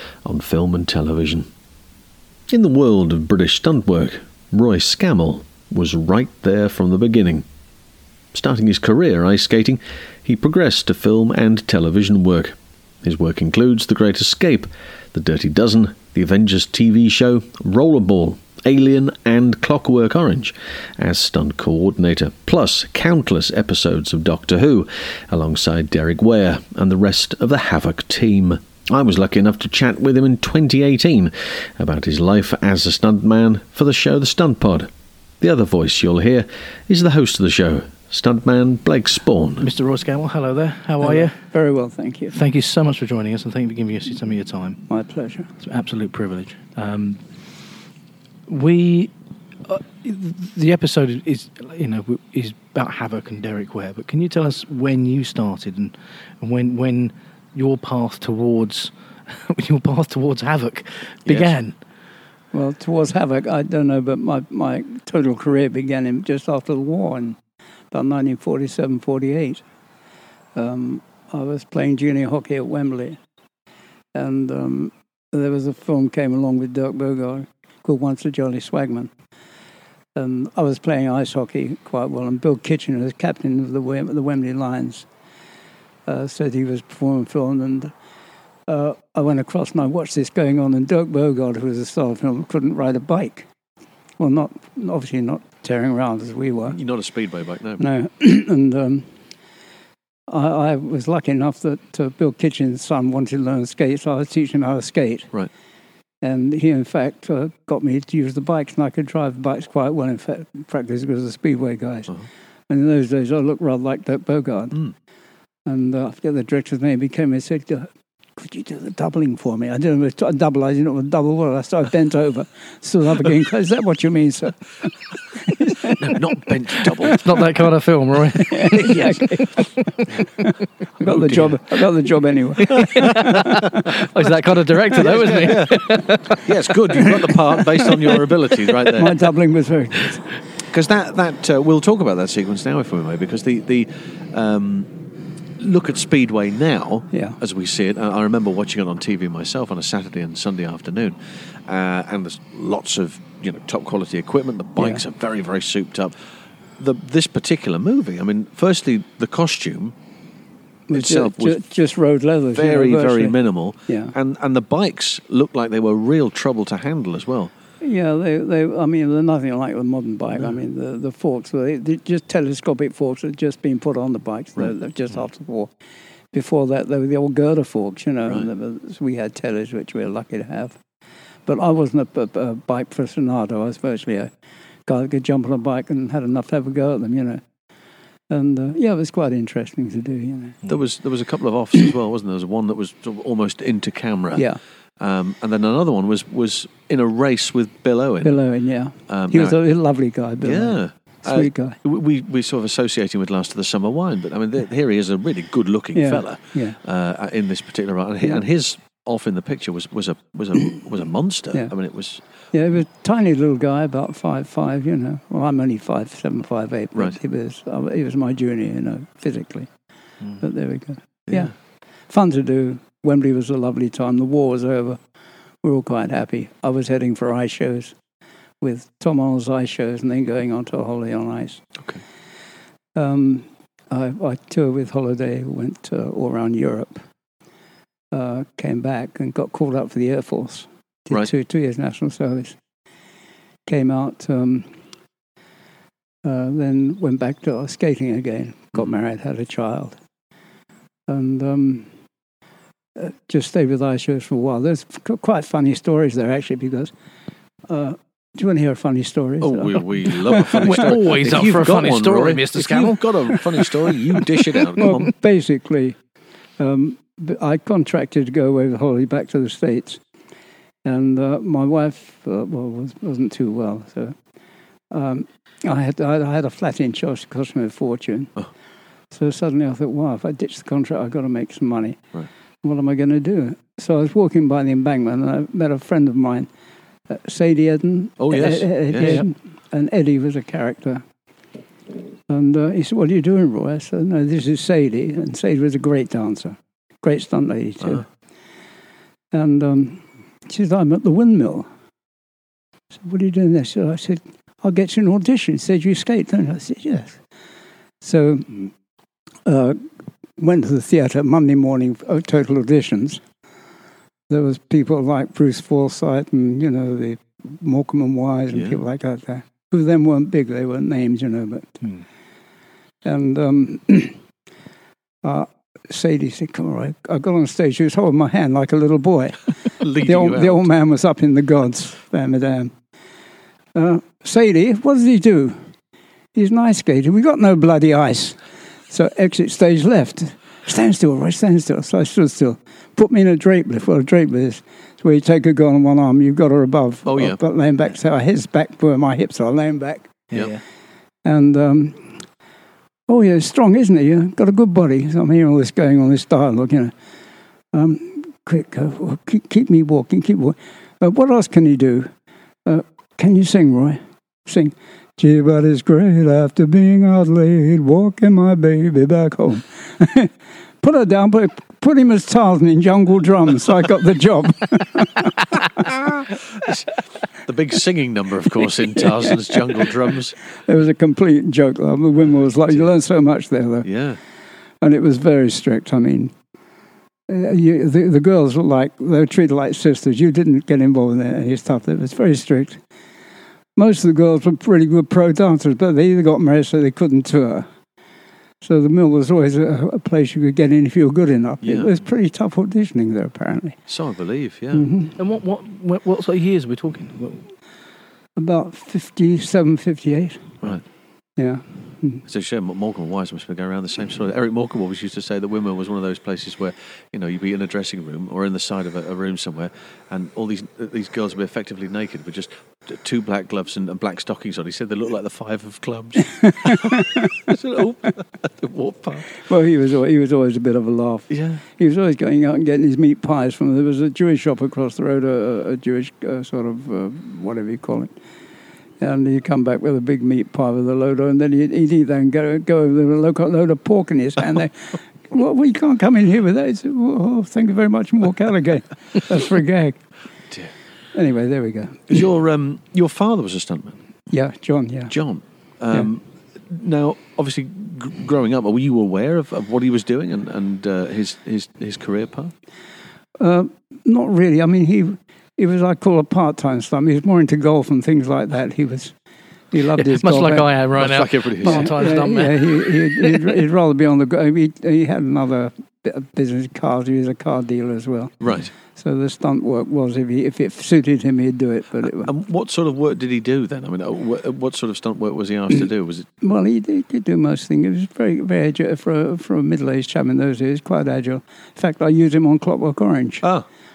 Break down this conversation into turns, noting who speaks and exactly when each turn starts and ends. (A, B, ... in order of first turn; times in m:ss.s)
0:00.2-0:01.5 A
0:02.5-0:07.5 A
0:08.3-0:34.9 A
0:35.4-0:39.7 A
0:39.6-0:41.4 B
0:41.0-0:42.4 C
0:42.3-0:44.8 B
0:44.9-0:45.5 C
0:45.6-0:47.2 B
0:48.5-0:49.1 B
0:49.7-1:01.7 B
1:01.2-1:01.6 A
1:02.5-1:07.4 C
1:07.9-1:09.6 C
1:10.6-1:13.2 C
1:14.1-1:19.1 C
1:20.1-1:25.1 C
1:26.1-1:27.9 C
1:28.7-1:33.5 C
1:34.2-1:36.8 C
1:36.7-1:37.8 A
1:37.8-1:39.1 C
1:40.3-1:45.3 C
1:46.2-1:52.1 C
1:52.7-1:54.8 C
1:55.6-2:04.6 C
2:05.5-2:06.1 C
2:05.9-2:07.4 A
2:07.2-2:09.6 B
2:08.4-2:13.8 C
2:11.0-2:11.6 B
2:12.6-2:16.4 B
2:12.8-2:13.5 A
2:14.4-2:19.2 A
2:18.8-2:20.2 C
2:20.7-2:24.9 A
2:25.6-2:36.1 A
2:27.1-2:27.4 C
2:34.8-2:35.0 C
2:36.8-2:40.0 A
2:40.9-2:43.3 C
2:40.9-2:41.6 A
2:42.5-2:47.5 A
2:43.9-2:44.1 C
2:47.8-2:55.7 C
2:56.3-3:00.8 C
3:01.4-3:04.3 C
3:04.8-3:07.4 C
3:08.3-3:10.6 C
3:10.6-3:14.4 A
3:14.3-3:14.6 C
3:15.0-3:18.4 A
3:18.2-3:21.8 C
3:19.1-3:19.6 A
3:20.4-3:32.2 A
3:25.9-3:26.8 C
3:32.5-3:39.7 C
3:40.4-3:41.5 C
3:42.1-3:45.0 C
3:45.6-3:47.9 C
3:48.6-3:51.6 C
3:52.9-3:57.0 C
3:58.1-4:02.6 C
4:03.6-4:04.7 C
4:06.2-4:10.0 C
4:11.1-4:11.9 C
4:13.0-4:16.9 C
4:17.7-4:20.4 C
4:19.4-4:25.1 A
4:20.5-4:23.3 B
4:24.8-4:26.0 C
4:26.6-4:30.0 C
4:30.8-4:34.1 C
4:34.9-4:38.3 C
4:39.1-4:42.0 C
4:42.6-4:46.5 C
4:47.1-4:51.0 C
4:48.2-4:49.2 A
4:49.0-4:49.2 B
4:52.3-4:58.0 C
4:59.3-5:01.7 C
5:03.0-5:07.2 C
5:08.0-5:08.7 C
5:09.4-5:09.8 C
5:10.4-5:13.2 C
5:14.3-5:21.8 C
5:18.5-5:18.8 A
5:23.0-5:24.2 C
5:25.2-5:29.4 C
5:29.8-5:30.7 A
5:29.9-5:32.7 C
5:33.7-5:35.6 C
5:36.3-5:38.4 C
5:38.9-5:50.2 C
5:47.0-5:47.4 A
5:50.3-5:50.6 B
5:51.2-5:52.2 C
5:53.1-5:56.9 C
5:57.7-6:02.1 C
6:02.6-6:10.3 C
6:10.8-6:15.3 C
6:15.8-6:16.9 A
6:17.4-6:20.4 A
6:20.7-6:23.9 C
6:23.8-6:24.2 A
6:24.8-6:26.3 C
6:27.3-6:32.8 C
6:33.8-6:37.7 C
6:38.6-6:43.8 C
6:41.6-6:41.9 A
6:43.9-6:44.8 A
6:44.7-6:45.2 C
6:45.2-6:47.5 B
6:48.4-6:50.4 C
6:51.4-6:52.2 C
6:52.3-7:09.3 A
7:09.4-7:18.1 C
7:11.3-7:11.6 A
7:19.0-7:30.0 C
7:31.1-7:32.2 C
7:32.1-7:34.0 A
7:34.3-7:35.1 C
7:35.1-7:42.5 A
7:43.4-7:49.1 C
7:49.7-7:50.7 C
7:50.0-7:53.5 B
7:50.9-7:51.9 A
7:51.6-7:58.3 C
7:58.4-7:58.7 A
7:58.9-8:02.3 C
8:02.0-8:06.3 A
8:06.4-8:13.4 C